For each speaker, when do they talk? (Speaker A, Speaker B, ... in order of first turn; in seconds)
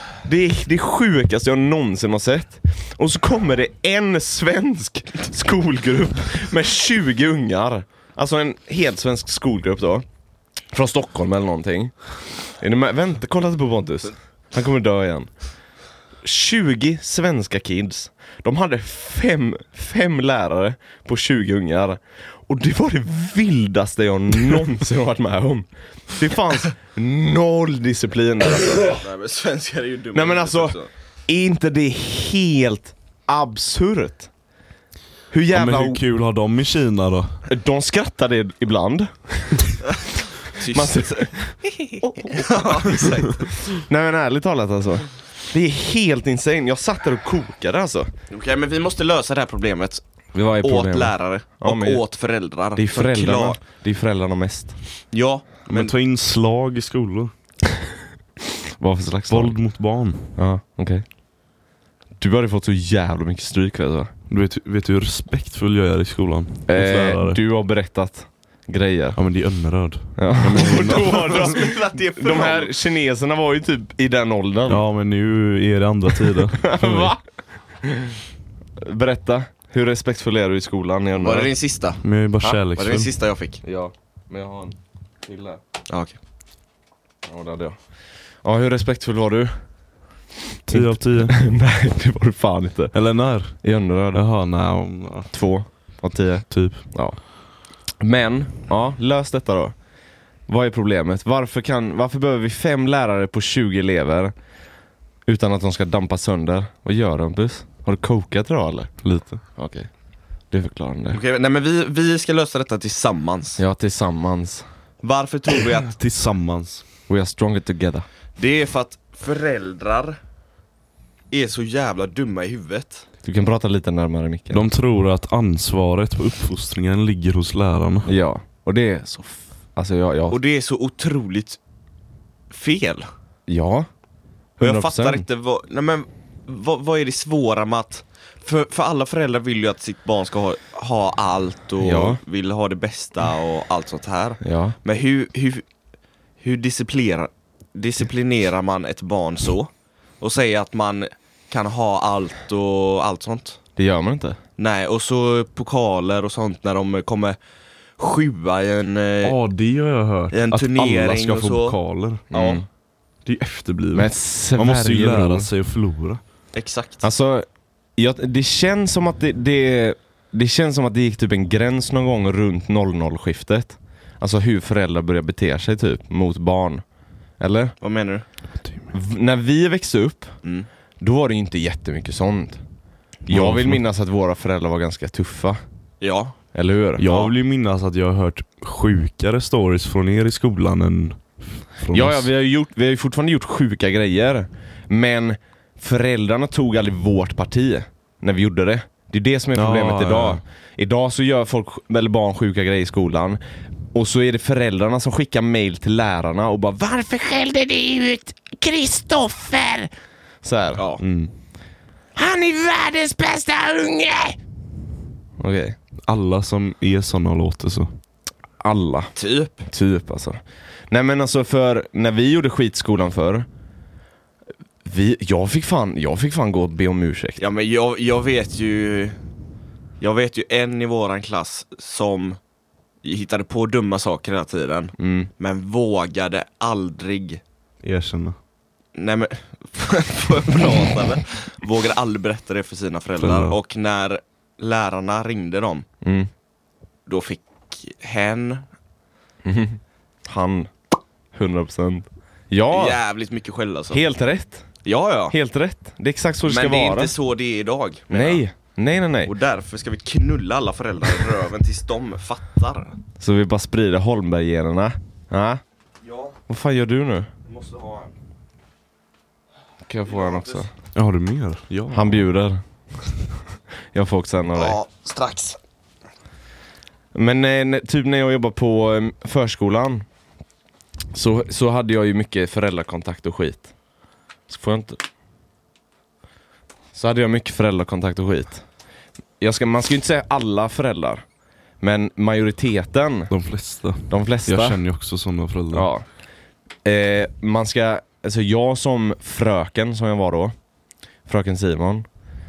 Speaker A: 0.2-10.1, 10.7-11.9, 12.6-15.3, 16.2-29.0, 30.1-34.3, 35.3-36.0, 37.5-39.8, 40.6-43.2, 43.7-48.1, 50.3-52.0, 52.8-54.8, 58.8-59.6, 60.3-61.0, 62.2-64.1, 66.7-69.2, 70.2-74.8, 76.6-77.2, 77.8-78.2, 78.8-81.5, 83.6-85.6, 87.2-87.8, 88.4-89.5, 90.7-92.9, 93.6-94.2, 95.3-97.2, 98.0-99.7, 100.5-104.3, 105.2-109.9, 110.5-111.2, 113.6-114.7, 117.1-118.0, 123.2-124.6, 128.1-130.4, 133.5-133.9, 134.6-135.2, 141.8-142.2, 144.4-144.8, 153.8-154.4, 162.3-162.7, 163.9-165.5, 167.0-176.8, 177.4-177.8, 178.9-180.3, 181.0-182.6, 183.3-185.6, 186.5-187.1, 191.9-203.4, 203.9-209.9, 210.4-210.8, 212.1-214.4, 215.4-215.8, 218.6-219.1, 219.7-223.5, 224.8-227.4, 235.0-235.3, 246.0-246.3, 249.4-250.7, 251.3-253.0, 253.9-254.7, 255.3-257.1, 258.1-259.3, 263.2-265.6, 266.5-267.3, 269.9-270.7, 271.9-272.6, 273.9-274.8, 277.1-280.1, 281.1-283.7, 284.5-285.0, 286.9-288.6, 289.4-291.2, 291.8-293.3, 294.1-294.8, 295.7-296.1, 296.8-300.5, 301.3-302.1
Speaker B: 28.8-30.9, 40.5-41.2, 42.2-43.4, 48.3-50.0, 50.6-53.6, 55.1-55.9, 70.5-72.7, 81.2-83.6, 85.9-86.2, 111.1-113.6, 115.0-115.9, 118.4-120.2, 121.3-123.0, 130.3-131.6, 132.5-133.1, 134.6-145.7, 146.4-153.6, 154.6-157.4, 158.0-159.3, 160.3-161.8, 162.3-162.6, 166.5-167.0, 177.8-178.2, 180.4-180.7, 186.0-186.4, 187.0-187.3, 210.8-211.0, 219.2-219.7, 227.4-229.2, 230.0-232.4, 233.0-237.4, 238.9-245.8, 247.1-248.7, 252.7-254.0, 254.8-255.3, 256.4-258.4, 259.2-263.0, 266.0-266.4, 267.5-268.1, 270.1-270.6, 274.5-275.6
Speaker C: 35.5-37.4, 55.7-57.3, 59.3-60.3, 64.3-67.4, 69.2-71.5, 74.7-77.1, 82.0-83.1, 90.7-91.4, 92.9-95.3, 96.5-96.8, 109.0-109.4, 115.8-116.8, 124.5-128.1, 159.2-162.2, 163.2-166.2, 178.6-178.9, 183.3-183.8, 187.0-192.3, 199.5-200.4, 211.0-211.3, 216.1-217.9, 237.8-238.4, 243.2-243.6, 270.9-272.2, 293.3-295.9